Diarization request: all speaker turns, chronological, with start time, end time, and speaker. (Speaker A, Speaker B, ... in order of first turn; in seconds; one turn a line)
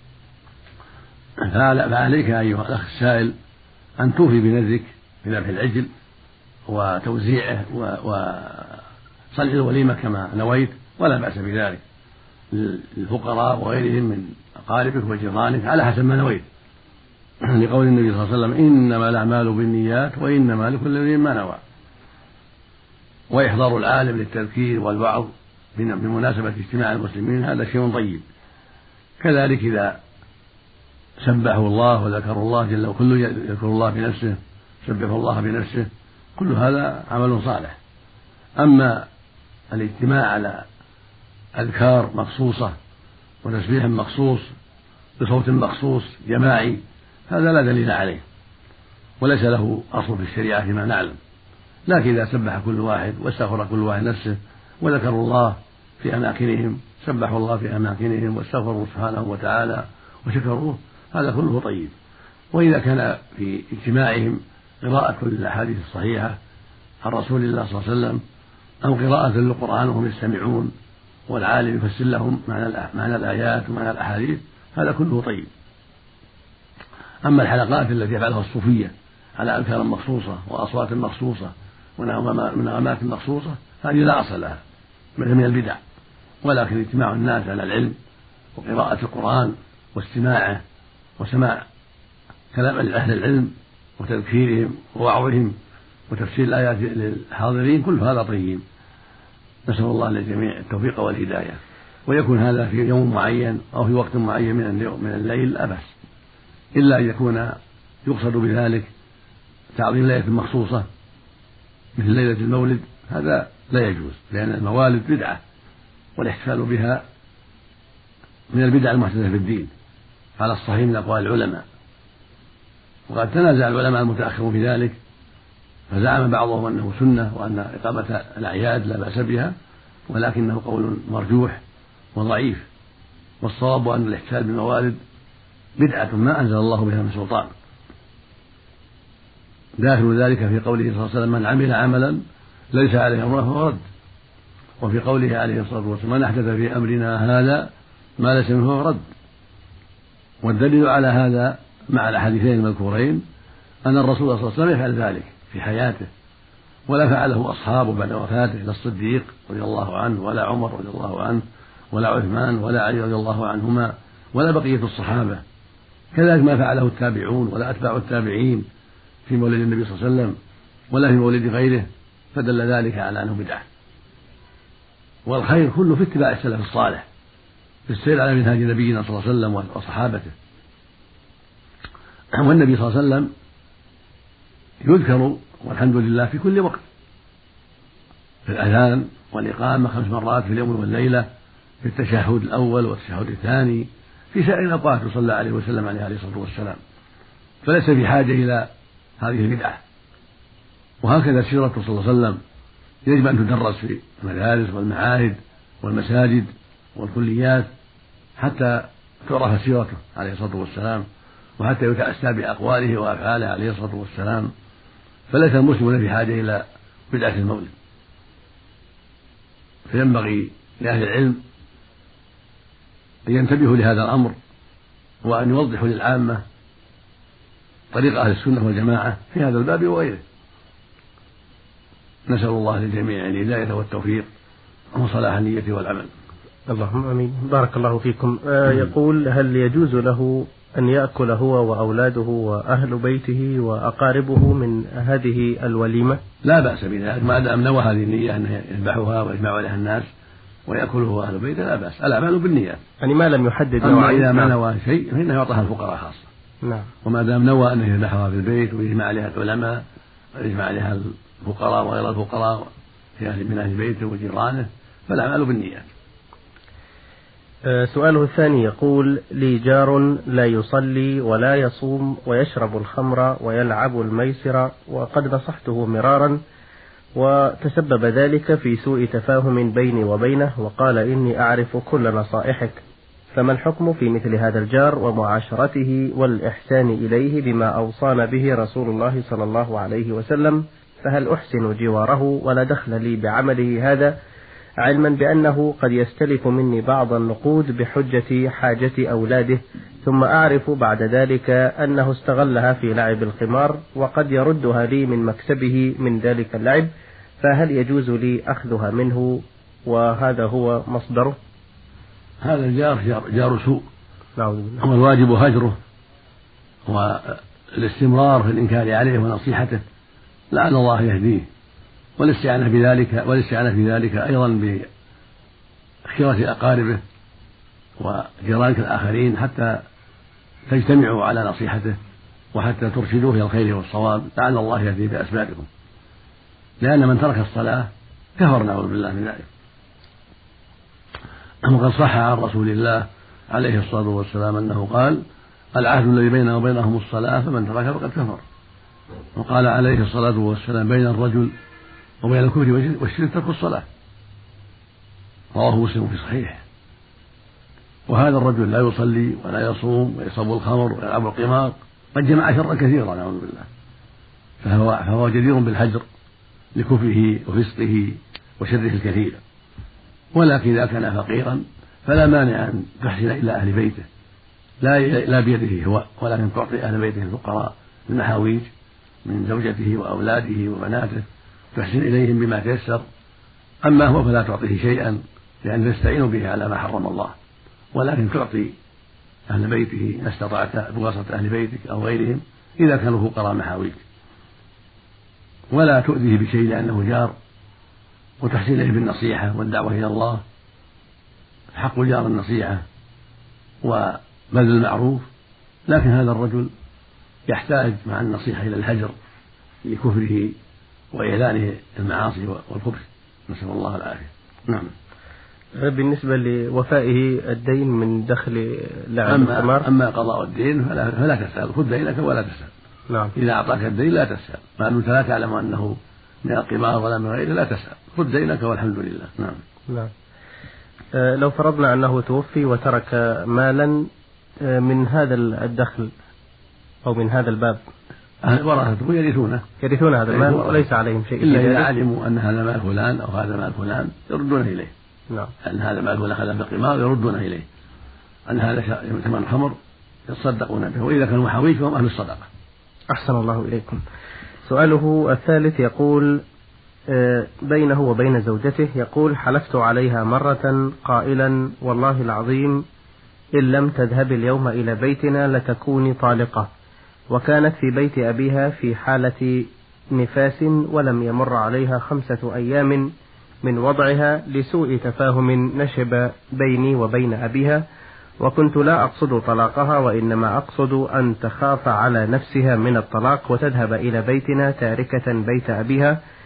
Speaker A: 1.4-3.3
Speaker A: 4.0-5.9
Speaker A: 6.7-11.8
Speaker A: 12.5-16.4
Speaker A: 17.4-21.6
Speaker A: 23.3-28.2
Speaker A: 29.2-30.0
Speaker A: 31.2-37.8
Speaker A: 38.6-39.0
Speaker A: 39.7-40.6
Speaker A: 41.5-42.7
Speaker A: 43.4-44.5
Speaker A: 45.2-48.2
Speaker A: 49.2-51.2
Speaker A: 51.9-61.9
Speaker A: 62.5-66.4
Speaker A: 67.0-68.2
Speaker A: 68.8-70.7
Speaker A: 71.3-75.5
Speaker A: 77.2-84.6
Speaker A: 85.2-85.8
Speaker A: 86.4-88.0
Speaker A: 88.5-90.6
Speaker A: 91.2-91.6
Speaker A: 92.5-95.5
Speaker A: 96.1-98.6
Speaker A: 99.7-105.9
Speaker A: 106.7-108.9
Speaker A: 109.7-110.8
Speaker A: 112.0-115.4
Speaker A: 116.2-117.0
Speaker A: 118.5-119.7
Speaker A: 120.4-121.6
Speaker A: 123.1-125.0
Speaker A: 125.9-129.5
Speaker A: 130.1-131.6
Speaker A: 132.1-132.7
Speaker A: 133.4-135.0
Speaker A: 135.8-137.5
Speaker A: 139.8-142.2
Speaker A: 142.7-143.8
Speaker A: 144.8-149.0
Speaker A: 150.4-153.2
Speaker A: 153.8-156.1
Speaker A: 156.9-165.4
Speaker A: 166.1-168.6
Speaker A: 169.2-170.3
Speaker A: 170.9-173.7
Speaker A: 175.2-177.0
Speaker A: 177.9-180.3
Speaker A: 182.3-183.3
Speaker A: 184.8-186.8
Speaker A: 188.4-191.3
Speaker A: 191.8-196.8
Speaker A: 197.6-199.8
Speaker A: 201.0-202.4
Speaker A: 203.0-207.7
Speaker A: 208.4-211.0
Speaker A: 211.6-214.5
Speaker A: 215.3-217.7
Speaker A: 219.9-221.4
Speaker A: 223.3-224.3
Speaker A: 225.2-226.4
Speaker A: 227.9-230.2
Speaker A: 232.3-234.2
Speaker A: 234.9-236.1
Speaker B: 236.7-246.2
Speaker A: 246.4-250.1
Speaker A: 250.7-252.8
Speaker B: 253.0-254.5
Speaker A: 253.8-256.2
Speaker B: 256.6-256.9
Speaker A: 257.0-259.8
Speaker A: 260.4-265.9
Speaker B: 267.7-276.4
Speaker B: 277.1-282.8
Speaker B: 283.3-294.1
Speaker B: 294.8-306.9
Speaker B: 307.4-311.4
Speaker A: 312.4-313.9
Speaker B: 314.4-314.8
Speaker A: 314.8-315.8
Speaker A: 316.9-319.8
Speaker A: 320.5-321.5
Speaker A: 322.2-324.9
Speaker A: 326.1-327.0
Speaker A: 328.0-329.8
Speaker A: 330.7-331.9
Speaker A: 332.5-335.7
Speaker A: 336.8-339.5
Speaker A: 341.6-345.2
Speaker A: 345.7-348.4
Speaker A: 349.3-351.5
Speaker A: 352.2-353.8
Speaker A: 355.5-356.6
Speaker A: 358.1-363.7
Speaker A: 364.6-366.0
Speaker A: 366.7-369.4
Speaker A: 370.3-374.1
Speaker A: 374.8-378.7
Speaker A: 379.2-383.0
Speaker A: 383.8-387.3
Speaker A: 387.9-388.7
Speaker A: 389.5-394.0
Speaker A: 395.7-397.3
Speaker A: 398.4-400.4
Speaker A: 401.7-402.8
Speaker A: 403.8-405.2
Speaker A: 405.9-406.7
Speaker A: 407.5-409.1
Speaker A: 409.8-410.5
Speaker A: 411.1-414.9
Speaker B: 415.8-419.9
Speaker A: 419.2-422.7
Speaker A: 423.4-429.6
Speaker B: 431.1-434.1
Speaker B: 434.6-436.1
Speaker B: 437.0-437.8
Speaker A: 438.4-439.6
Speaker B: 439.8-441.9
Speaker A: 440.3-440.9
Speaker A: 441.4-444.9
Speaker A: 445.6-447.6
Speaker A: 448.5-449.7
Speaker A: 450.3-452.4
Speaker B: 453.1-454.0
Speaker B: 454.6-456.4
Speaker B: 457.1-462.8
Speaker B: 463.5-466.7
Speaker B: 467.3-473.1
Speaker B: 473.6-477.8
Speaker B: 478.4-486.2